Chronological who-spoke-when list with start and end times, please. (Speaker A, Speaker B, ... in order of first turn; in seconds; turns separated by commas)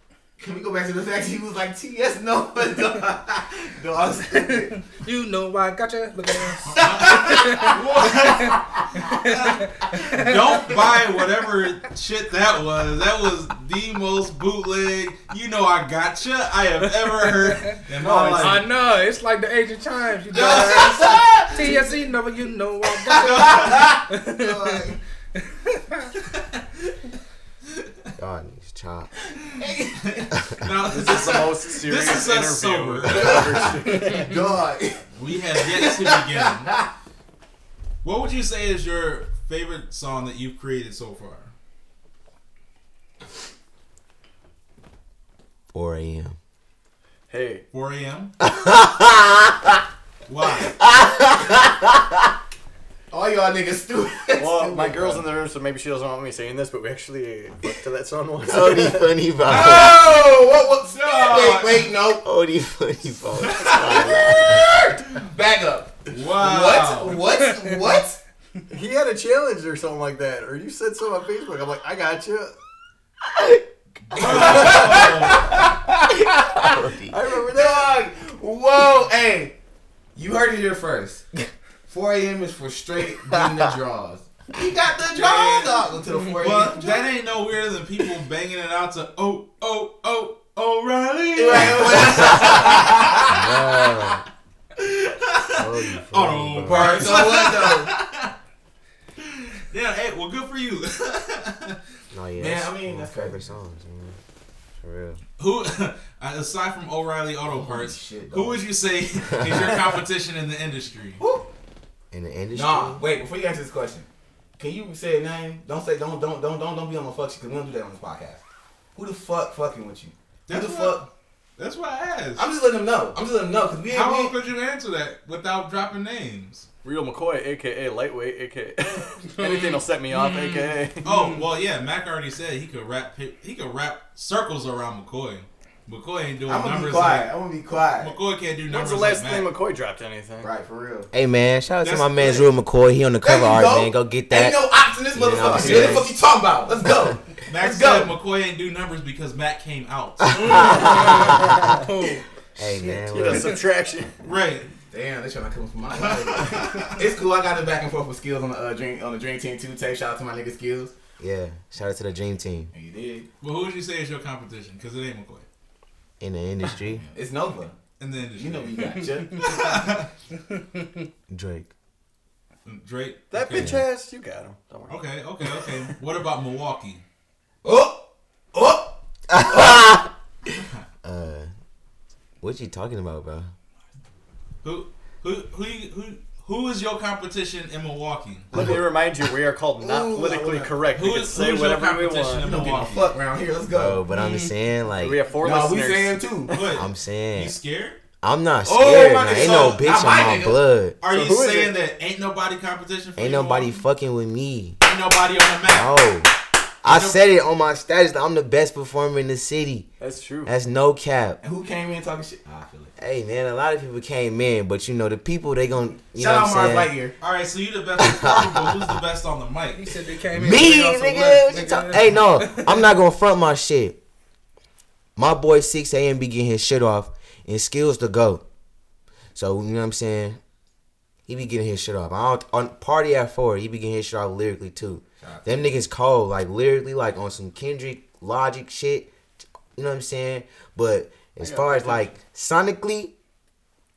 Speaker A: 0.4-4.8, Speaker B: 4.3-10.8, Speaker A: 6.7-8.1, Speaker C: 6.7-8.7, Speaker C: 10.1-18.7, Speaker B: 17.2-17.8, Speaker D: 17.9-18.7, Speaker B: 18.4-24.9, Speaker C: 20.3-21.7, Speaker A: 21.0-21.8, Speaker C: 23.1-23.9, Speaker A: 23.1-25.0, Speaker B: 25.7-26.1, Speaker E: 28.2-29.1, Speaker A: 29.6-30.3, Speaker C: 30.0-33.8, Speaker D: 30.9-34.4, Speaker A: 33.1-36.9, Speaker C: 35.1-36.7, Speaker C: 38.0-41.5, Speaker E: 45.7-46.4, Speaker D: 47.3-47.6, Speaker C: 47.7-48.3, Speaker E: 48.4-49.8, Speaker C: 50.3-50.8, Speaker E: 50.6-52.3, Speaker A: 53.1-55.1, Speaker D: 54.4-59.1, Speaker E: 58.4-60.0, Speaker A: 59.4-62.2, Speaker C: 61.0-61.9, Speaker E: 62.2-64.7, Speaker A: 63.6-68.2, Speaker C: 66.1-67.2, Speaker D: 68.7-72.6, Speaker E: 73.2-75.1, Speaker C: 74.1-75.6, Speaker A: 74.2-76.8, Speaker E: 76.3-77.2, Speaker D: 77.0-77.9, Speaker A: 77.3-79.5, Speaker A: 80.2-81.3, Speaker A: 81.9-87.1, Speaker C: 85.1-93.3, Speaker A: 91.3-93.4, Speaker E: 93.3-94.2, Speaker C: 94.8-98.3, Speaker E: 95.5-97.2, Speaker A: 96.7-97.9, Speaker C: 99.2-101.8, Speaker E: 102.1-104.2, Speaker A: 102.4-103.4, Speaker E: 104.8-105.2, Speaker C: 105.4-111.2, Speaker A: 107.4-108.6, Speaker A: 111.2-111.5, Speaker E: 112.1-113.0, Speaker A: 112.5-114.1, Speaker A: 114.6-118.4, Speaker A: 119.0-121.1, Speaker C: 120.5-122.5, Speaker A: 122.4-124.4, Speaker C: 123.9-126.7, Speaker D: 126.8-131.1, Speaker B: 129.3-131.4, Speaker C: 131.0-137.4, Speaker A: 136.5-138.2, Speaker C: 138.0-139.5, Speaker D: 138.7-140.5, Speaker A: 140.4-141.1, Speaker E: 141.1-146.1, Speaker C: 141.8-142.5, Speaker A: 143.2-148.1, Speaker C: 145.6-146.0, Speaker C: 147.5-151.1, Speaker E: 150.3-151.7, Speaker B: 150.3-153.6, Speaker D: 150.8-151.1, Speaker E: 152.6-153.6, Speaker D: 153.1-154.3, Speaker C: 154.2-154.7, Speaker A: 154.9-160.9, Speaker C: 156.0-157.0, Speaker E: 161.2-162.7, Speaker A: 162.7-163.3, Speaker C: 163.4-165.5, Speaker E: 166.2-167.1, Speaker A: 167.0-167.8, Speaker C: 168.0-170.1, Speaker A: 168.4-169.7, Speaker E: 171.3-171.7, Speaker C: 172.7-173.8, Speaker D: 173.3-175.1, Speaker E: 173.5-173.8, Speaker C: 174.9-177.0, Speaker A: 177.6-180.0, Speaker E: 179.3-180.1, Speaker E: 181.0-181.5, Speaker E: 182.4-183.5, Speaker C: 184.6-188.7, Speaker D: 188.5-192.6, Speaker A: 189.8-190.8, Speaker C: 190.9-193.1, Speaker A: 192.4-194.0, Speaker E: 193.7-195.2, Speaker B: 194.1-194.6, Speaker D: 194.9-196.8, Speaker A: 195.4-196.6, Speaker C: 196.5-198.0, Speaker E: 196.7-197.6, Speaker E: 198.2-201.0, Speaker A: 198.7-200.6, Speaker C: 198.7-199.8, Speaker C: 201.0-203.8, Speaker D: 201.1-201.8, Speaker E: 203.2-204.8, Speaker C: 204.8-205.9, Speaker E: 205.7-206.3, Speaker E: 206.8-209.9, Speaker C: 206.9-207.2, Speaker D: 210.0-210.5, Speaker E: 210.5-211.4, Speaker A: 211.4-212.9, Speaker E: 213.0-216.9, Speaker A: 216.2-217.2, Speaker C: 217.2-219.9, Speaker E: 218.0-219.0, Speaker B: 219.8-222.8, Speaker E: 220.3-224.0, Speaker E: 225.2-228.4, Speaker E: 229.3-230.4, Speaker E: 231.3-239.1, Speaker A: 235.2-235.7, Speaker E: 239.8-243.1, Speaker D: 241.4-242.1